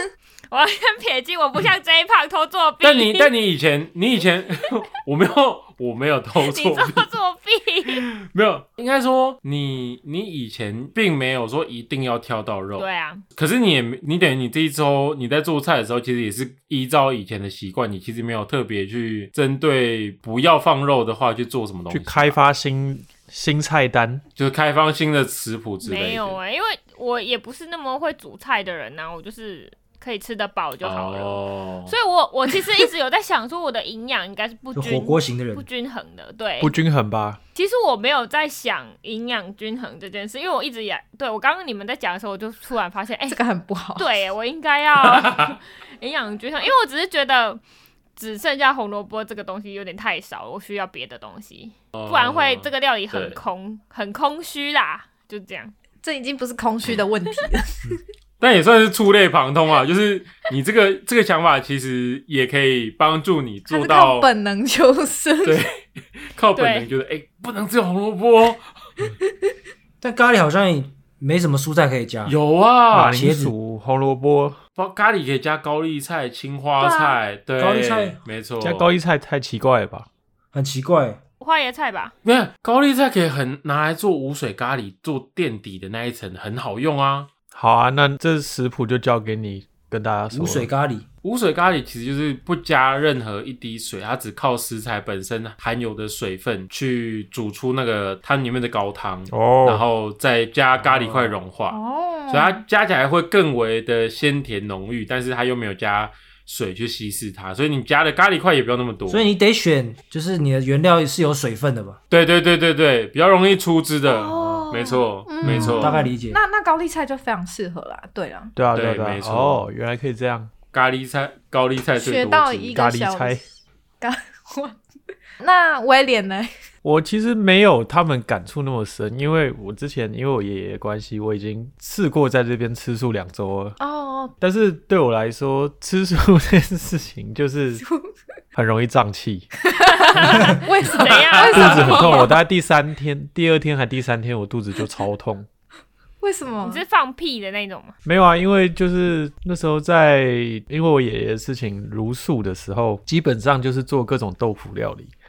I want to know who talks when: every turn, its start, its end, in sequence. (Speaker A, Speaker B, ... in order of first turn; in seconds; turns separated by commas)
Speaker A: 0.5-3.3, Speaker B: 2.8-7.1, Speaker A: 6.4-8.1, Speaker B: 7.9-22.4, Speaker A: 12.8-13.2, Speaker C: 21.9-24.2, Speaker B: 24.4-26.4, Speaker A: 25.8-36.7, Speaker B: 30.8-31.9, Speaker D: 34.7-35.6, Speaker C: 36.6-37.4, Speaker A: 37.5-43.4, Speaker E: 43.3-44.1, Speaker A: 44.0-47.6, Speaker B: 45.0-45.5, Speaker A: 48.1-55.7, Speaker B: 51.9-53.4, Speaker E: 56.0-58.0, Speaker B: 58.4-64.3, Speaker E: 63.7-65.6, Speaker B: 65.4-68.7, Speaker A: 66.5-66.9, Speaker D: 70.0-72.3, Speaker B: 72.2-73.2, Speaker C: 72.9-74.6, Speaker D: 72.9-73.5, Speaker B: 74.8-78.9, Speaker E: 76.8-77.2, Speaker D: 77.6-78.2, Speaker C: 78.6-80.1, Speaker D: 80.5-81.2, Speaker A: 81.4-82.1, Speaker B: 82.2-87.3, Speaker C: 87.5-90.7, Speaker D: 90.3-91.0, Speaker B: 91.2-101.8, Speaker C: 99.3-99.8, Speaker D: 100.8-101.4, Speaker E: 101.7-102.6, Speaker B: 102.3-109.3, Speaker D: 109.1-112.0, Speaker B: 112.1-116.0, Speaker E: 114.1-118.5, Speaker D: 115.4-116.4, Speaker C: 118.5-120.5, Speaker B: 118.7-119.6, Speaker B: 120.7-122.7, Speaker E: 122.0-123.4, Speaker C: 122.7-123.4, Speaker E: 124.0-124.8, Speaker E: 125.4-126.5, Speaker C: 126.8-133.8, Speaker E: 133.8-134.3, Speaker C: 134.4-137.8, Speaker E: 137.8-138.1, Speaker C: 138.5-139.5, Speaker E: 139.7-142.4, Speaker A: 140.1-142.3, Speaker B: 141.0-142.0, Speaker C: 141.4-145.5, Speaker E: 146.2-146.8, Speaker A: 146.6-147.9, Speaker C: 148.0-155.1